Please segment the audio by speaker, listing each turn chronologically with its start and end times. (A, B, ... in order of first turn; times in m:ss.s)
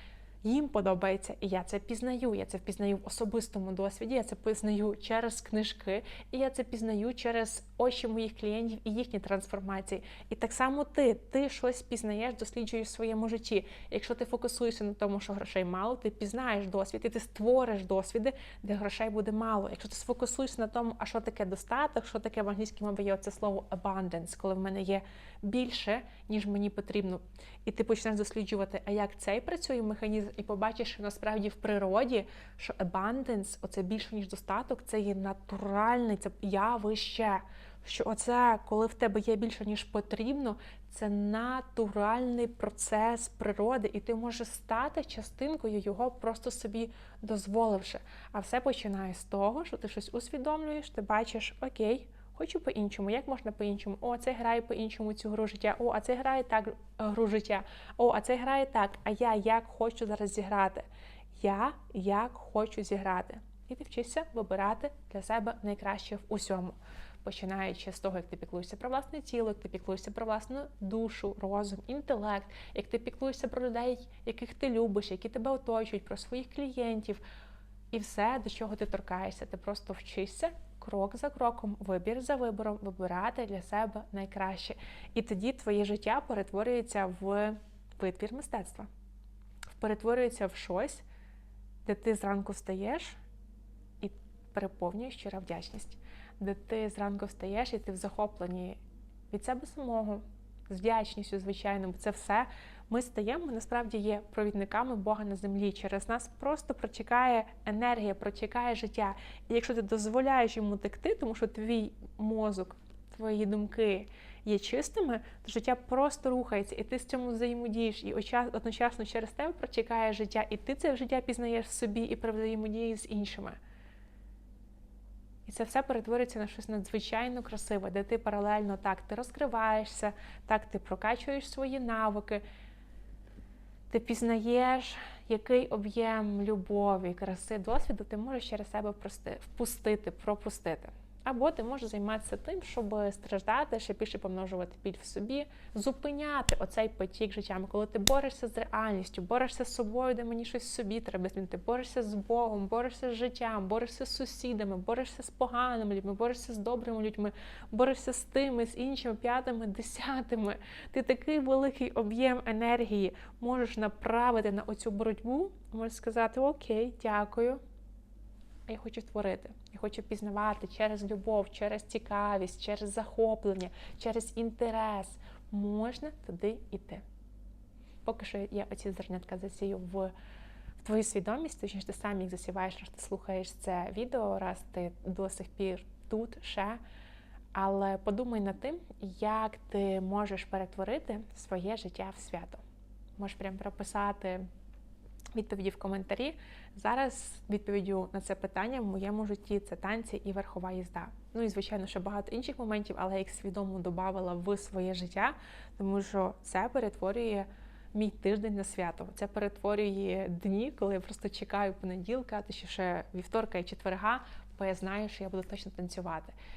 0:00.4-1:00.8 A
1:01.4-1:17.2 A
1:17.9-1:28.9 A
1:29.8-1:31.0 A
1:31.9-1:33.2 A
1:34.0-1:38.8 A
1:39.3-2:03.6 A
2:05.5-2:12.4 A
2:13.9-2:47.6 A
2:48.7-2:57.0 A
2:58.0-3:00.1 A
3:00.8-3:06.8 A
3:07.5-3:12.6 A
3:13.2-3:14.5 A
3:15.4-3:36.4 A